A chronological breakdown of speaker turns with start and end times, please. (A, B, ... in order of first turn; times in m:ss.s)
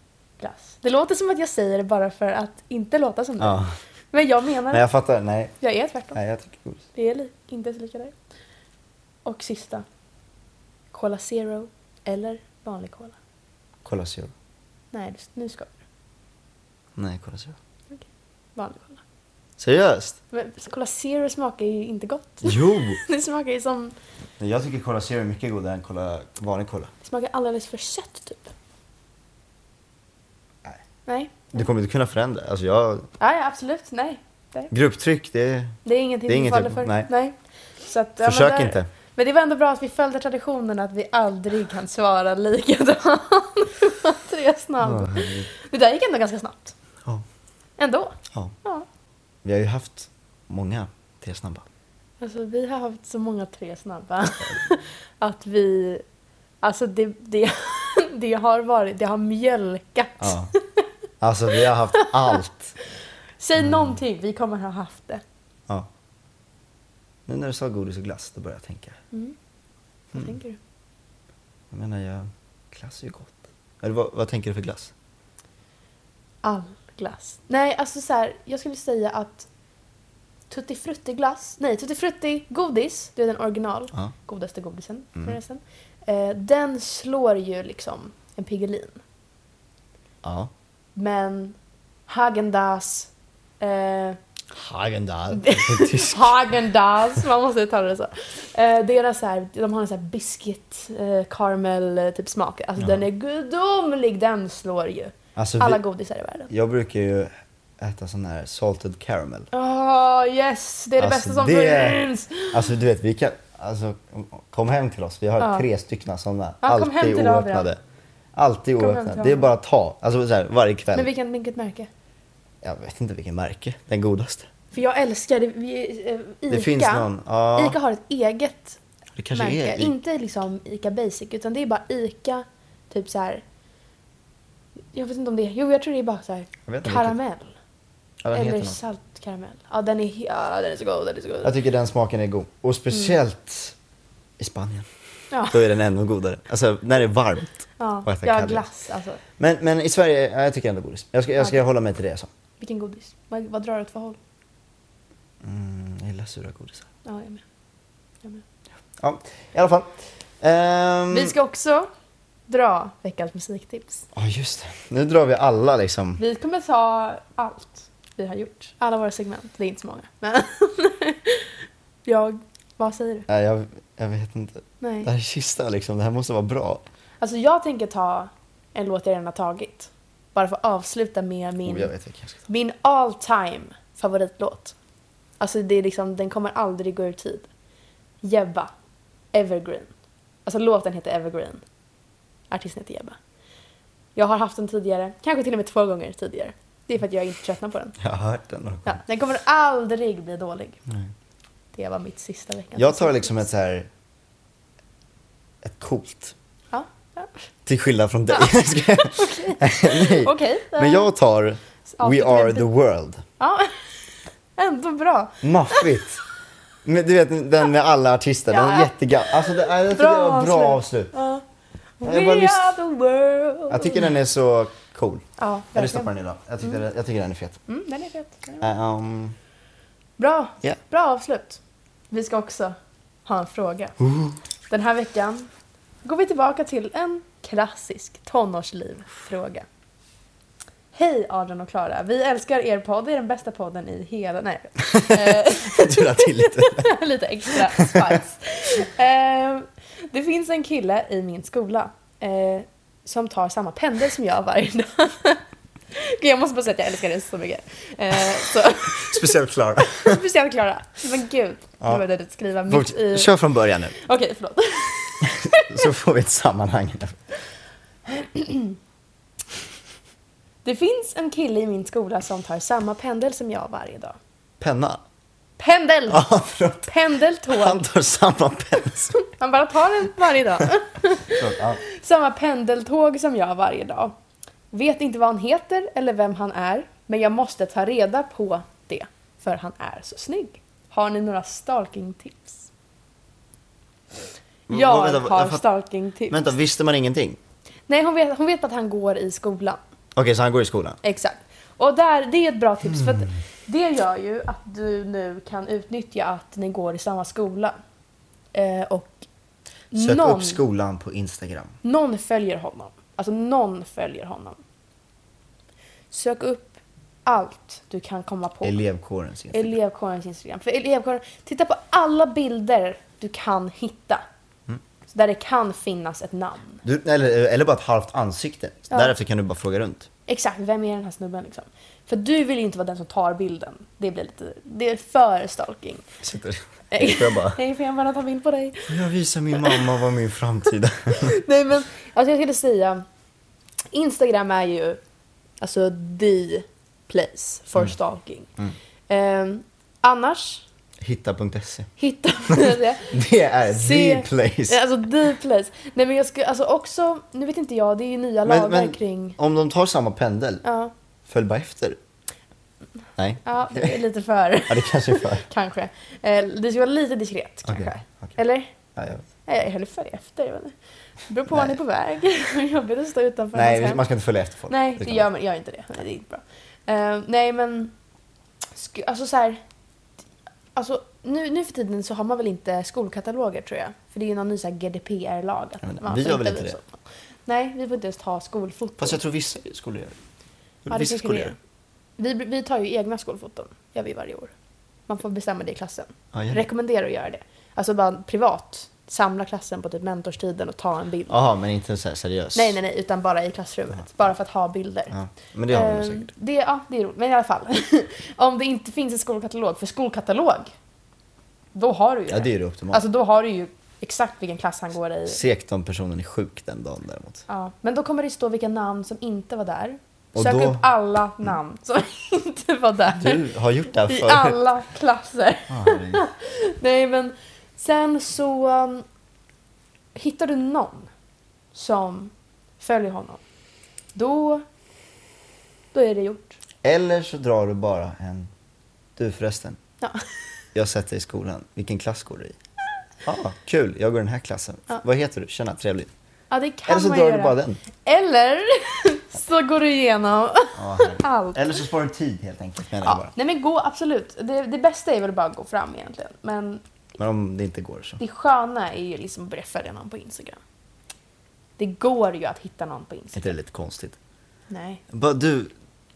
0:00.4-0:04.8 A
0:03.4-0:03.7 B
0:04.7-0:05.5 B
0:05.6-0:06.2 A
0:06.1-0:06.8 B
0:06.9-0:08.1 A
0:09.2-0:09.8 A
0:10.9-0:13.2 A
0:13.8-0:14.3 B
0:14.9-0:15.7 A
0:17.0-0:17.6 B
0:18.6-0:19.0 A
0:19.6-0:20.2 B
0:20.3-0:23.9 A
0:22.4-0:23.0 B
0:24.4-0:26.9 B
0:27.0-0:28.5 A
0:31.1-0:31.5 A
0:31.5-0:33.1 B
0:33.2-0:34.7 A
0:34.7-0:37.1 B
0:35.8-0:37.3 A
0:37.8-0:46.7 A
0:38.2-0:38.9 B
0:44.8-0:45.5 B
0:47.8-0:48.8 A
0:49.4-0:51.6 B
0:52.2-0:56.0 A
0:56.6-1:00.8 A
1:00.2-1:00.5 B
1:01.2-1:02.7 B
1:01.9-1:02.4 A
1:03.4-1:05.2 A
1:03.6-1:03.9 B
1:07.3-1:09.0 B
1:10.1-1:10.6 A
1:11.7-1:14.9 B
1:16.4-1:19.5 A
1:20.5-1:29.0 A
1:30.2-1:30.5 B
1:31.0-1:31.6 A
1:32.1-1:34.2 A
1:34.5-1:36.5 B
1:35.3-1:46.5 A
1:45.4-1:45.8 B
1:46.5-1:49.5 B
1:49.5-1:52.7 A
1:51.0-1:57.8 B
1:55.4-1:55.6 A
1:56.6-1:57.7 A
1:58.3-2:01.1 B
1:58.8-1:59.5 A
2:00.9-2:01.9 A
2:02.6-2:04.5 B
2:04.7-2:08.8 A
2:06.5-2:07.8 B
2:09.2-2:09.9 B
2:09.3-2:13.4 A
2:14.9-2:17.5 A
2:16.6-2:17.2 B
2:18.2-2:18.8 B
2:18.3-2:21.5 A
2:21.4-2:23.7 B
2:24.4-2:24.9 B
2:25.3-2:25.6 A
2:25.5-2:28.6 B
2:27.8-2:29.2 A
2:29.4-2:32.3 B
2:32.6-2:34.2 A
2:35.4-2:36.9 B
2:37.0-2:37.4 A
2:39.0-2:41.3 B
2:41.1-2:41.9 A
2:42.5-2:44.0 A
2:44.1-2:46.2 B
2:46.2-2:53.3 A
2:53.3-2:56.8 B
2:54.8-2:55.1 A
2:57.2-3:01.9 A
3:01.6-3:02.4 B
3:02.5-3:04.7 A
3:05.4-3:07.5 A
3:08.2-3:08.7 A
3:09.3-3:09.9 A
3:10.4-3:11.6 A
3:12.5-3:13.2 A
3:14.2-3:18.0 A
3:18.0-3:19.0 B
3:18.8-3:20.8 A
3:21.7-3:23.5 A
3:22.8-3:23.9 B
3:25.6-3:26.3 B
3:26.7-3:27.4 A
3:27.6-3:33.2 B
3:28.3-3:31.1 A
3:31.9-3:32.7 A
3:33.4-3:33.9 A
3:34.6-3:36.0 A
3:35.4-3:36.2 B
3:36.8-3:41.1 B
3:38.5-3:41.4 A
3:42.0-3:44.1 A
3:42.0-3:42.7 B
3:43.7-3:47.6 B
3:45.4-3:46.1 A
3:47.7-3:48.7 A
3:48.6-3:49.3 B
3:50.2-3:51.6 A
3:52.1-3:54.0 A
3:54.0-3:54.4 B
3:54.7-3:55.5 A
3:56.0-3:59.6 A
4:00.9-4:25.9 A
4:04.8-4:06.9 B
4:07.5-4:08.2 B
4:18.9-4:20.2 B
4:22.7-4:23.9 B
4:25.2-4:27.2 B
4:28.1-4:28.8 A
4:30.6-4:34.2 A
4:34.6-4:35.0 B
4:35.6-4:36.3 A
4:36.1-4:36.9 B
4:36.8-4:37.8 A
4:37.5-4:39.2 B
4:39.2-4:44.1 A
4:41.3-4:41.8 B
4:44.7-4:52.7 A
4:54.7-4:55.6 B
4:54.7-4:56.5 A
4:56.3-4:57.4 B
4:57.9-4:59.8 A
5:00.1-5:01.0 B
5:01.0-5:07.8 A
5:02.8-5:03.3 B
5:08.5-5:09.2 A
5:09.9-5:10.6 A
5:09.9-5:11.7 B
5:11.8-5:14.6 A
5:16.1-5:18.8 A
5:18.6-5:19.7 B
5:19.5-5:24.2 A
5:25.1-5:26.8 A
5:26.8-5:30.1 B
5:30.3-5:36.0 A
5:36.2-5:37.6 B
5:36.9-5:39.0 A
5:38.9-5:41.4 B
5:39.5-5:39.8 A
5:41.1-5:43.0 A
5:43.9-5:45.0 A
5:45.6-5:48.5 A
5:49.1-5:50.6 A
5:51.0-5:51.9 B
5:52.0-5:59.4 A
5:52.5-5:54.8 B
5:58.4-6:00.6 B
6:00.6-6:00.9 A
6:01.2-6:02.0 B
6:03.2-6:04.0 B
6:03.4-6:08.7 A
6:04.7-6:05.4 B
6:07.6-6:08.3 B
6:08.9-6:09.2 B
6:09.4-6:10.7 A
6:11.3-6:14.0 A
6:11.5-6:11.8 B
6:13.5-6:15.3 B
6:14.7-6:17.9 A
6:18.8-6:19.6 A
6:20.7-6:26.9 A
6:25.8-6:26.8 B
6:27.4-6:29.2 A
6:29.0-6:30.2 B
6:30.8-6:31.6 B
6:30.9-6:31.6 A
6:32.2-6:34.5 A
6:35.1-6:41.3 A
6:36.3-6:36.6 B
6:41.3-6:42.8 B
6:42.5-6:45.1 A
6:45.1-6:46.3 B
6:45.7-6:50.7 A
6:51.7-6:55.4 A
6:52.3-6:53.0 B
6:55.3-6:57.4 B
6:57.5-7:03.5 A
7:00.3-7:00.8 B
7:03.2-7:04.6 B
7:04.0-7:09.0 A
7:05.7-7:06.2 B
7:10.1-7:11.1 A
7:11.7-7:13.4 A
7:14.1-7:14.6 A
7:15.9-7:16.6 A
7:16.8-7:18.5 B
7:19.2-7:19.8 B
7:20.7-7:22.6 B
7:23.2-7:26.1 B
7:26.5-7:31.8 A
7:26.9-7:27.8 B
7:30.7-7:33.3 B
7:33.0-7:36.8 A
7:37.2-7:38.2 B
7:38.2-7:40.6 A
7:41.8-7:43.5 A
7:43.4-7:44.2 B
7:44.7-7:45.0 A
7:45.1-7:45.7 B